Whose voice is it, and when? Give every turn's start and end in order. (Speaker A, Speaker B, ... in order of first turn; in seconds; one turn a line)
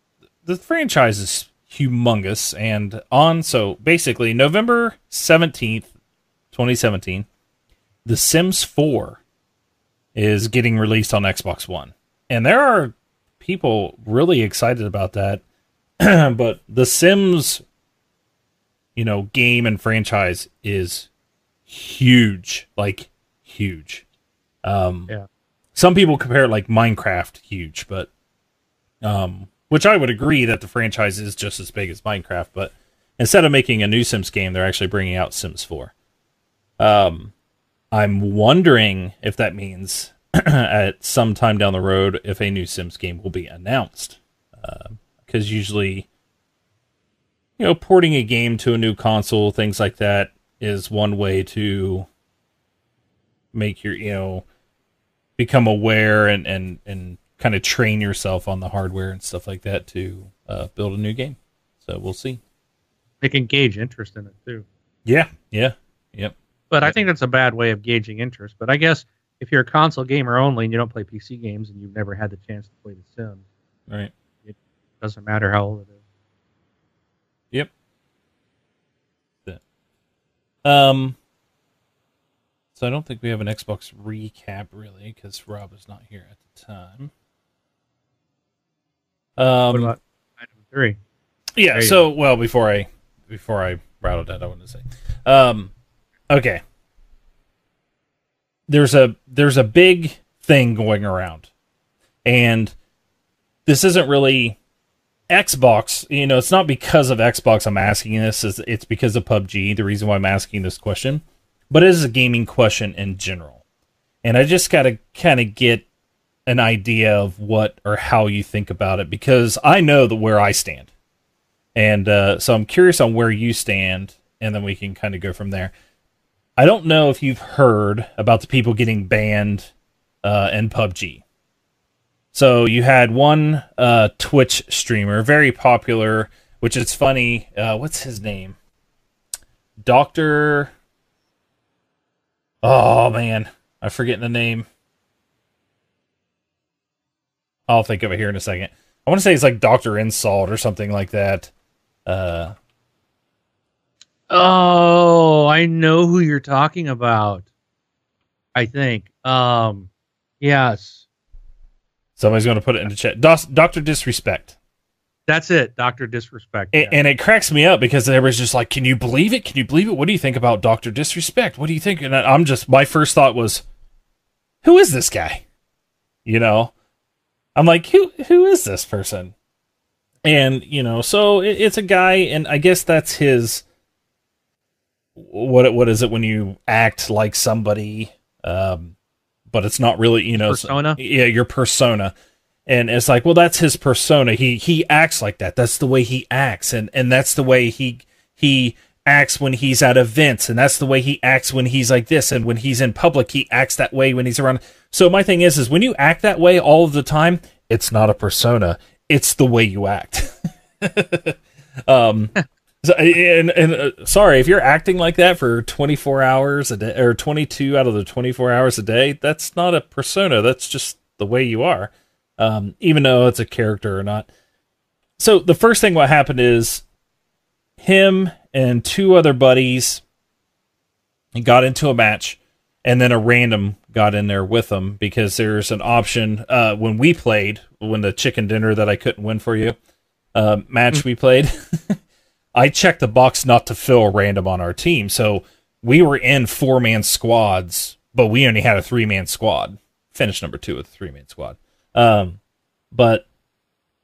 Speaker A: 0.4-5.9
Speaker A: 6.5-7.3
Speaker A: 8.0-9.2
Speaker A: 10.1-15.4
Speaker A: 16.0-17.6
Speaker A: 18.9-21.1
Speaker A: 21.7-24.0
Speaker A: 24.6-25.1
Speaker A: 25.7-28.1
Speaker A: 29.0-35.9
Speaker A: 36.8-37.3
Speaker A: 37.9-46.1
Speaker A: 47.6-52.1
Speaker A: 53.5-54.4
Speaker A: 55.4-62.4
Speaker B: 63.2-64.6
Speaker A: 65.0-66.9
Speaker B: 66.7-73.4
Speaker A: 73.9-74.1
Speaker B: 74.5-75.9
Speaker A: 80.6-81.2
Speaker A: 82.8-87.1
Speaker A: 89.4-89.9
Speaker B: 89.7-91.0
Speaker A: 91.5-95.7
Speaker B: 91.7-92.0
Speaker A: 96.3-96.6
Speaker A: 98.7-101.5
Speaker A: 102.2-102.7
Speaker A: 103.7-104.6
Speaker A: 105.3-113.6
Speaker A: 114.2-115.8
Speaker A: 116.5-120.9
Speaker A: 121.7-125.7
Speaker A: 126.6-129.7
Speaker A: 130.2-131.2
Speaker A: 132.3-138.6
Speaker A: 139.8-140.7
Speaker A: 142.6-144.7
Speaker A: 147.7-151.5
Speaker A: 152.1-152.5
Speaker B: 154.3-157.4
Speaker B: 158.5-159.9
Speaker B: 160.4-161.0
Speaker A: 162.2-164.5
Speaker B: 165.3-167.0
Speaker A: 166.7-173.6
Speaker A: 174.6-175.4
Speaker A: 176.2-176.7
Speaker A: 177.5-179.3
Speaker A: 180.2-183.6
Speaker A: 185.2-188.9
Speaker A: 189.5-192.1
Speaker B: 190.4-191.0
Speaker A: 192.7-224.3
Speaker A: 225.2-226.8
Speaker A: 227.8-230.0
Speaker A: 231.3-239.8
Speaker A: 240.3-242.0
Speaker A: 242.5-252.4
Speaker A: 252.9-253.2